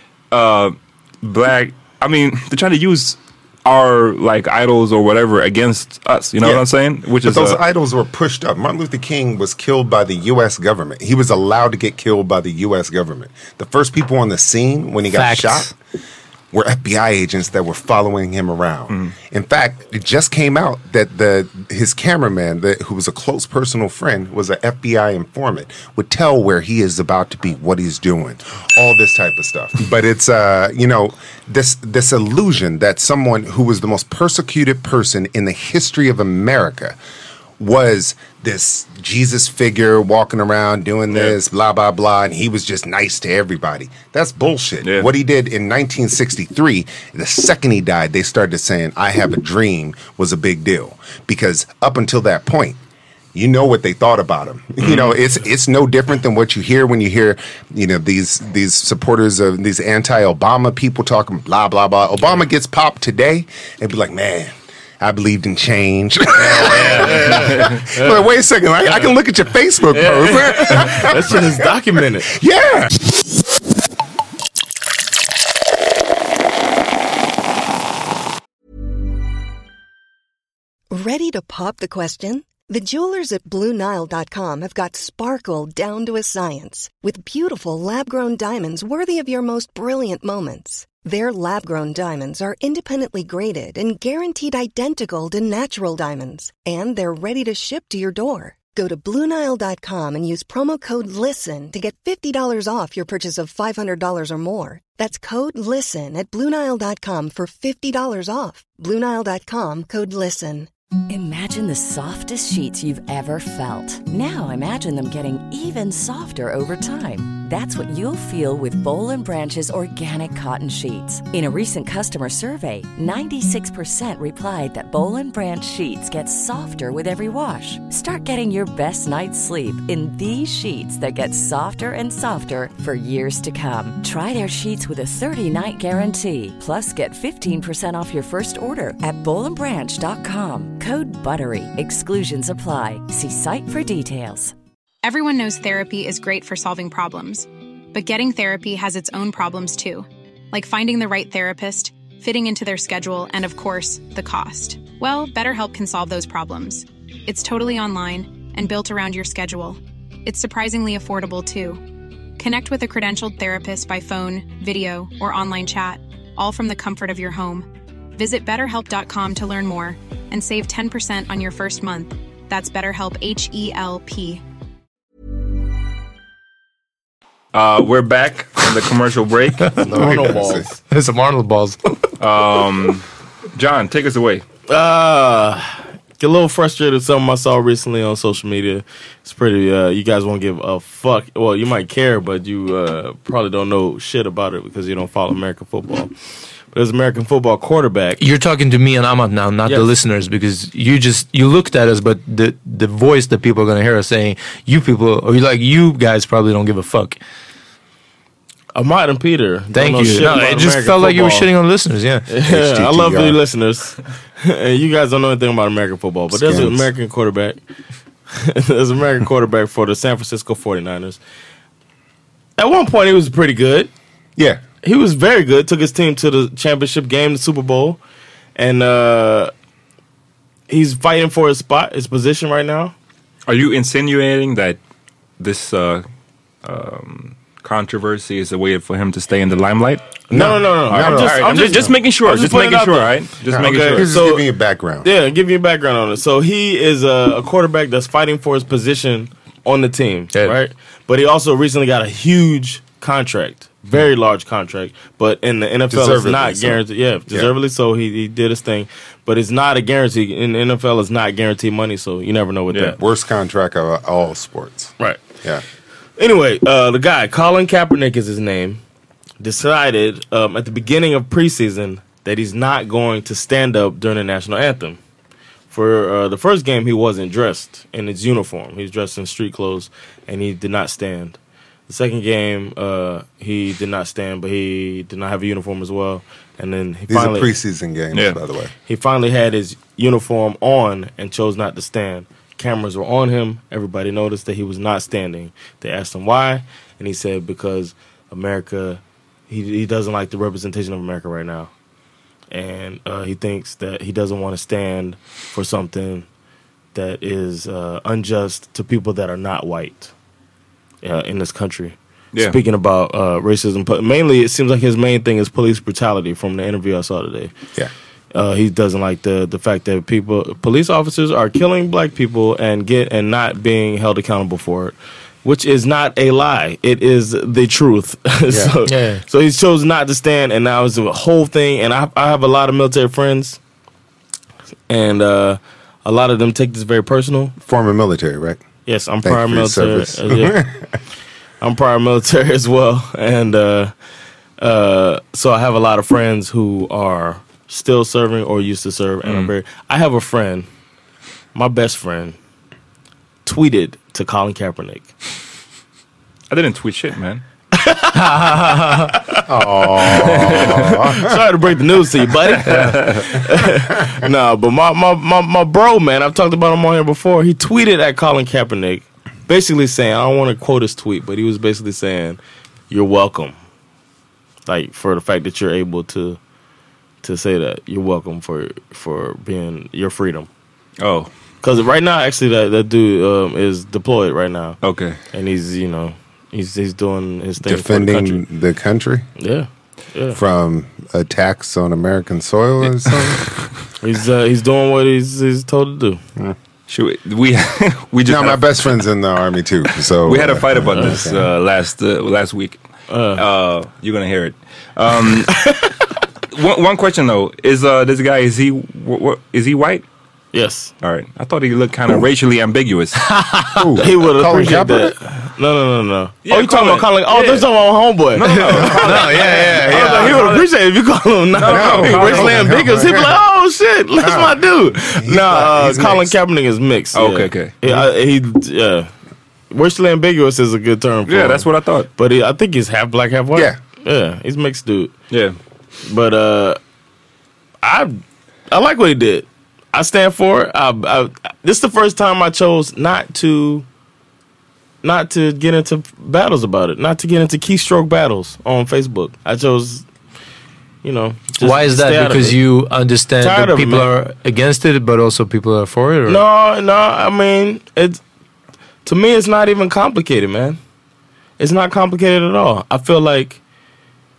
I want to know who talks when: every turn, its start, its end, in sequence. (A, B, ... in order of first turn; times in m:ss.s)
0:00.3-0:07.6 A
0:07.2-0:15.7 B
0:15.1-0:15.7 C
0:16.5-0:37.0 B
0:37.6-0:52.8 B
0:53.3-1:11.5 B
0:54.8-0:55.2 A
1:06.4-1:08.2 D
1:07.4-1:07.7 A
1:10.0-1:12.2 D
1:12.3-1:13.0 B
1:20.9-1:50.7 E
1:51.1-2:24.5 F
2:25.0-2:41.8 G
2:42.4-2:54.4 G
2:57.5-2:59.8 A
2:59.7-3:00.3 C
2:59.9-3:00.6 B
2:59.9-3:00.7 D
3:00.9-3:01.8 C
3:02.2-3:04.4 A
3:04.7-3:16.1 D
3:16.7-3:18.2 D
3:18.2-3:27.2 C
3:28.7-3:31.5 D
3:29.7-3:32.3 C
3:32.3-3:37.6 D
3:32.4-3:33.4 B
3:36.3-3:36.9 B
3:38.3-3:41.2 D
3:42.6-3:43.9 D
3:44.4-3:44.6 B
3:44.8-3:48.0 D
3:48.6-3:49.5 D
3:50.7-3:52.9 D
3:53.5-3:54.8 A
3:55.4-3:56.0 A
3:56.6-4:00.0 A
4:00.3-4:04.5 D
4:00.3-4:02.0 B
4:01.0-4:04.3 A
4:03.5-4:05.1 B
4:05.0-4:23.0 D
4:10.3-4:10.6 C
4:15.9-4:17.5 B
4:22.7-4:22.9 A
4:22.9-4:25.6 B
4:25.0-4:25.3 D
4:26.2-4:28.8 D
4:29.4-4:35.0 D
4:35.7-4:41.4 D
4:41.9-4:47.5 D
4:47.1-4:48.7 B
4:48.1-4:48.4 A
4:48.8-5:01.7 D
5:02.5-5:06.2 D
5:06.9-5:10.1 D
5:11.0-5:17.5 D
5:18.3-5:33.6 D
5:28.8-5:29.2 C
5:34.9-5:37.5 D
5:37.6-5:38.6 B
5:38.8-5:40.6 D
5:39.2-5:40.8 B
5:41.6-5:43.9 D
5:44.6-5:50.7 D
5:49.2-5:49.5 A
5:51.5-5:52.4 D
5:53.4-5:55.1 D
5:56.5-5:57.4 A
5:57.7-5:59.4 D
5:59.5-6:01.3 B
6:00.0-6:00.5 D
6:00.2-6:01.0 A
6:01.1-6:12.4 D
6:02.6-6:03.0 C
6:02.7-6:03.2 A
6:12.9-6:13.6 D
6:14.6-6:16.4 D
6:17.2-6:20.5 D
6:21.0-6:21.3 A
6:21.6-6:28.4 D
6:24.8-6:25.2 A
6:27.6-6:29.3 B
6:29.4-6:30.4 D
6:30.3-6:33.7 B
6:34.0-6:36.2 D
6:36.9-6:38.8 A
6:38.2-6:41.5 B
6:40.1-6:42.8 A
6:40.9-6:41.2 D
6:43.1-6:43.4 D
6:43.4-6:45.6 A
6:45.5-6:45.9 D
6:46.5-6:50.0 A
6:50.5-6:50.9 D
6:51.0-6:53.2 A
6:53.7-6:55.2 B
6:54.0-7:09.1 D
6:56.4-6:57.6 A
6:58.4-7:00.6 A
6:58.7-6:59.4 B
6:58.9-7:00.5 C
7:01.6-7:02.8 A
7:01.6-7:03.3 B
7:04.2-7:06.4 B
7:07.1-7:07.8 A
7:09.7-7:15.1 D
7:11.2-7:12.1 A
7:15.3-7:15.6 A
7:16.0-7:16.8 D
7:17.8-7:23.8 D
7:25.0-7:30.0 D
7:31.0-7:32.6 D
7:31.6-7:36.4 C
7:33.4-7:34.1 D
7:36.2-7:38.2 D
7:39.0-7:40.8 D
7:41.6-7:43.6 D